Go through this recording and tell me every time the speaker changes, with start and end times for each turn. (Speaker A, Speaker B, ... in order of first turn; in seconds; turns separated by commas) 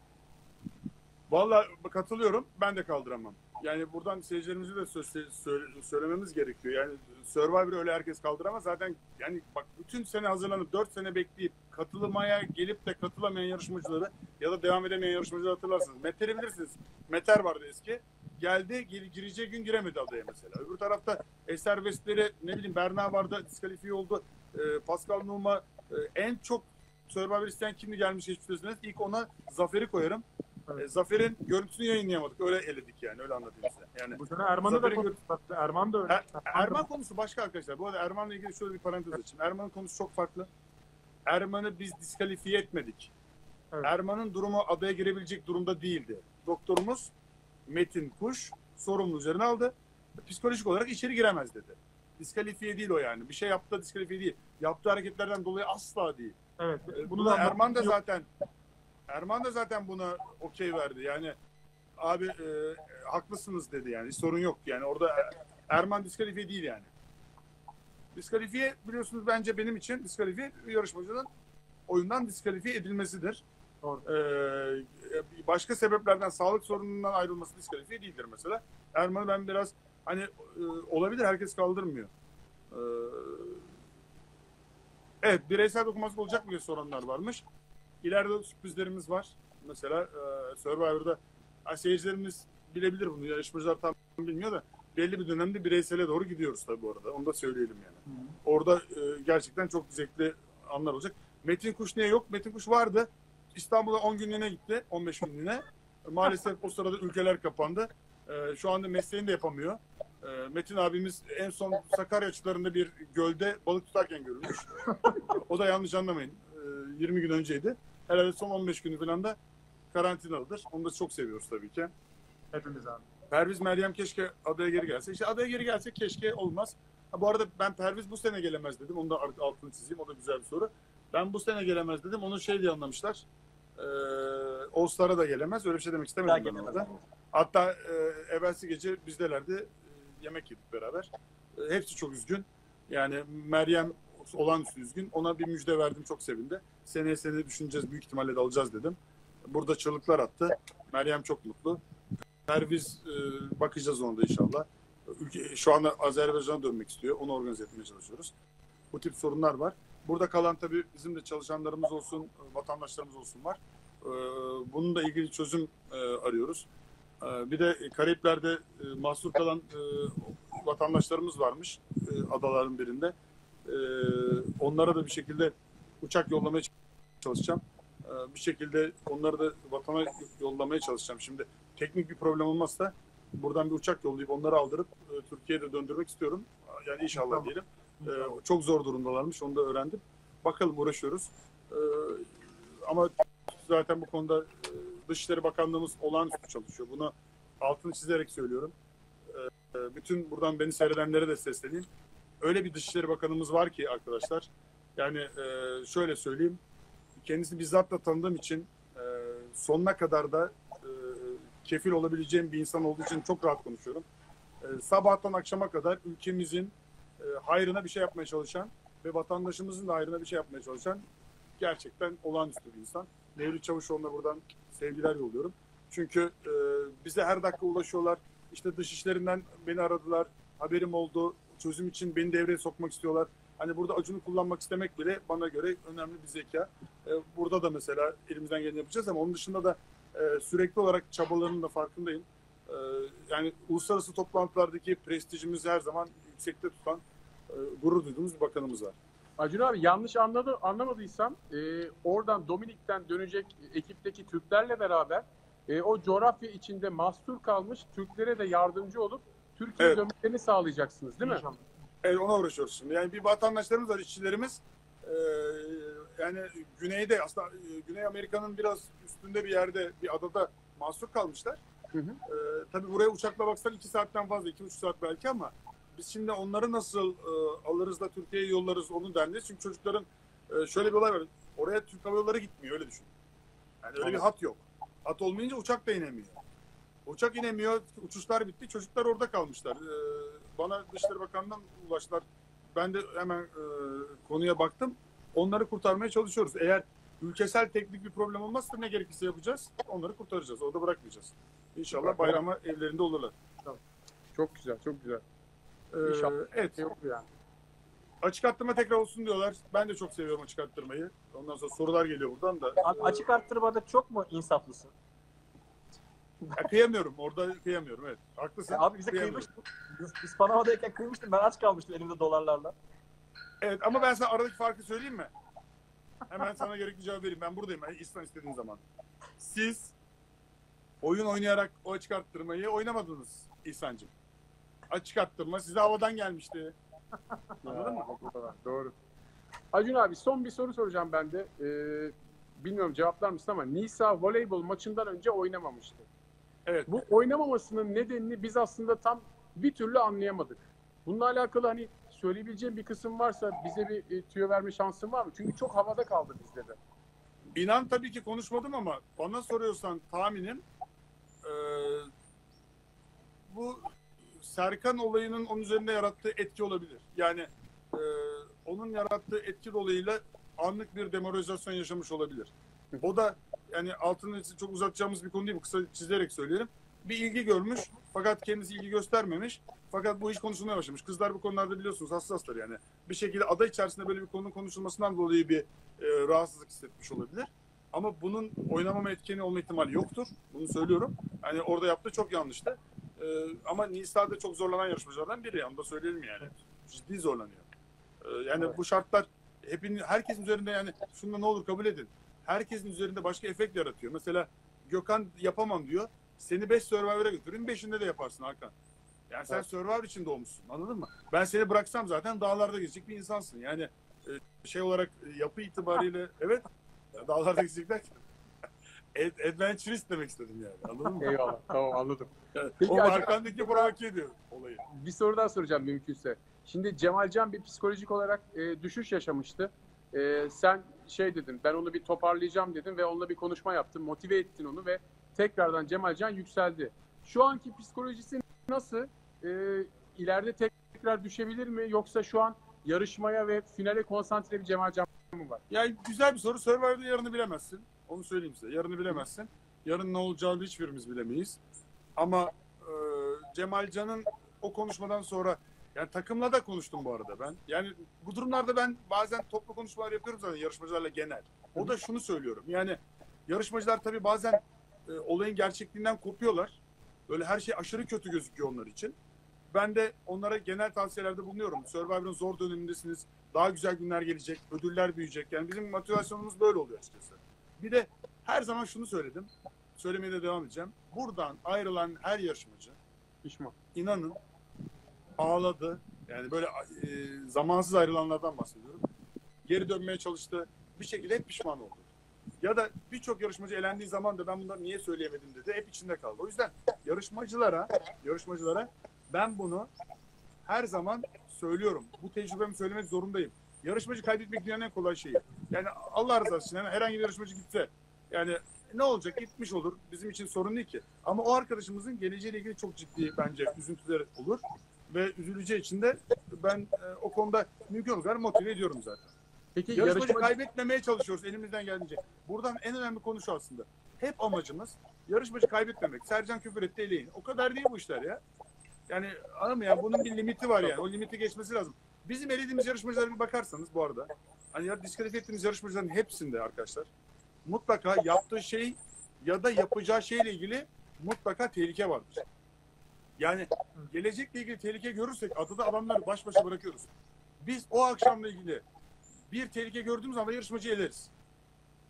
Speaker A: 1.3-30.2, Speaker A: 30.8-35.1, Speaker B: 34.1-36.8, Speaker A: 36.1-40.5, Speaker A: 41.3-43.1, Speaker A: 43.8-47.1, Speaker A: 47.7-56.4, Speaker B: 56.6-58.0, Speaker A: 56.9-58.3, Speaker A: 59.1-61.4, Speaker A: 62.0-66.9, Speaker A: 68.1-71.3, Speaker A: 71.9-73.4, Speaker A: 74.0-82.1, Speaker A: 82.7-83.6, Speaker A: 85.2-87.4, Speaker A: 88.0-119.4, Speaker B: 98.1-98.3, Speaker A: 119.9-121.9, Speaker B: 122.5-123.0, Speaker A: 123.3-133.2, Speaker A: 133.8-151.8, Speaker C: 136.2-137.0, Speaker A: 152.4-158.3, Speaker A: 158.9-166.7, Speaker A: 167.2-173.1, Speaker A: 173.7-192.3, Speaker B: 187.1-188.4, Speaker A: 192.8-198.7, Speaker A: 199.3-201.9, Speaker A: 202.4-206.6, Speaker A: 207.2-214.1, Speaker A: 214.6-221.0, Speaker A: 221.6-248.9, Speaker D: 249.4-261.4, Speaker B: 261.2-261.6, Speaker A: 262.0-271.6, Speaker D: 271.9-272.2, Speaker A: 272.2-283.1, Speaker A: 283.8-286.4, Speaker A: 287.1-303.3, Speaker D: 302.0-302.4, Speaker D: 304.3-305.2, Speaker A: 305.9-306.8, Speaker D: 306.0-307.2, Speaker A: 308.2-312.8, Speaker C: 312.8-314.9, Speaker A: 316.6-319.5, Speaker C: 318.7-322.8, Speaker A: 323.6-325.3, Speaker A: 326.3-328.8, Speaker A: 329.4-329.9, Speaker A: 331.0-334.1, Speaker A: 334.9-336.7, Speaker D: 337.6-338.9, Speaker A: 337.6-338.1, Speaker D: 339.7-346.1, Speaker A: 346.6-346.9, Speaker D: 346.9-356.8, Speaker A: 357.5-360.6, Speaker A: 361.4-362.1, Speaker A: 363.5-397.6, Speaker A: 398.2-408.7, Speaker A: 409.3-418.2, Speaker A: 419.1-421.6, Speaker D: 421.2-423.9, Speaker A: 422.5-424.8, Speaker D: 424.9-445.6, Speaker A: 445.7-451.6, Speaker A: 452.2-469.1, Speaker A: 469.7-483.0, Speaker D: 483.4-483.7, Speaker A: 483.9-484.4, Speaker A: 485.4-489.0, Speaker A: 489.6-492.1, Speaker A: 492.6-499.9, Speaker A: 500.6-519.3, Speaker D: 519.8-520.5, Speaker A: 519.9-528.4, Speaker A: 529.1-537.1, Speaker A: 537.6-542.4, Speaker A: 543.4-547.1, Speaker A: 547.6-548.8, Speaker A: 549.5-551.3